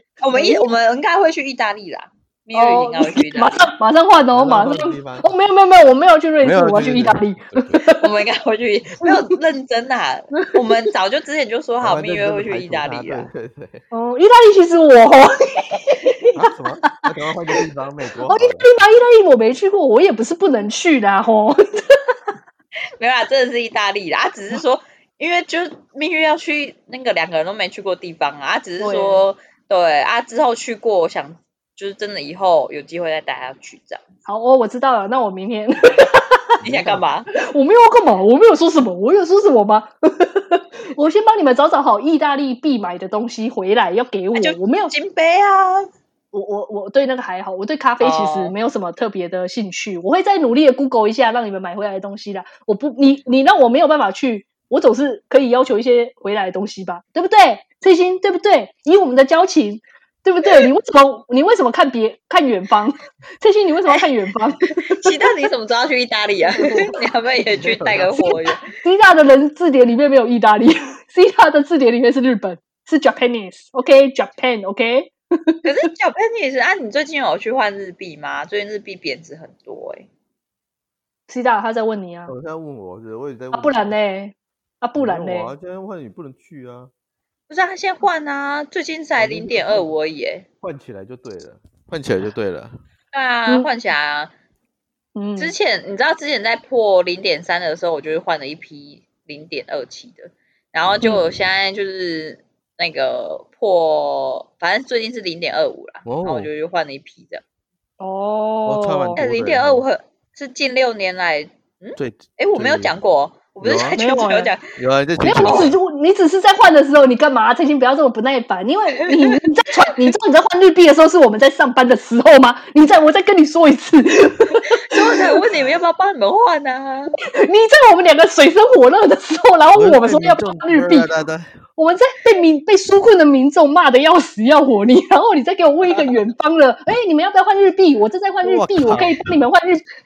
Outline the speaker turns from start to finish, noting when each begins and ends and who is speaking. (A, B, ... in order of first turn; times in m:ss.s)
0:00.2-0:03.7 A
0:00.3-0:00.7 B
0:02.5-0:08.1 B
0:04.3-0:05.3 C
0:06.4-0:07.8 C
0:08.0-0:13.3 A
0:11.8-0:13.8 C
0:13.9-0:17.0 B
0:16.4-0:18.7 C
0:18.2-0:22.0 B
0:23.0-0:34.0 A
0:28.8-0:29.2 B
0:34.3-0:36.4 B
0:36.6-0:37.0 C
0:36.6-0:37.3 A
0:37.3-0:44.9 B
0:44.3-0:45.9 A
0:46.3-1:05.1 B
0:48.0-0:48.5 A
1:04.9-1:08.7 A
1:06.5-1:06.9 B
1:07.5-1:08.3 C
1:08.6-1:15.6 B
1:15.6-1:20.1 A
1:21.3-1:22.3 B
1:22.3-1:23.9 C
1:23.5-1:25.5 B
1:25.0-1:26.9 C
1:27.5-1:30.5 A
1:29.2-1:29.9 C
1:30.6-1:32.8 C
1:33.1-1:34.3 A
1:35.2-1:35.5 B
1:35.4-1:47.4 A
1:46.0-1:46.5 C
1:48.0-1:49.2 B
1:48.7-1:49.8 C
1:49.2-1:54.6 A
1:52.0-1:52.9 C
1:53.6-1:54.0 C
1:53.9-1:54.5 B
1:54.7-1:55.8 C
1:55.2-2:05.3 B
1:55.4-1:55.7 A
2:04.9-2:07.2 A
2:07.3-2:11.1 B
2:09.8-2:11.6 C
2:11.8-2:19.8 B
2:18.4-2:19.4 C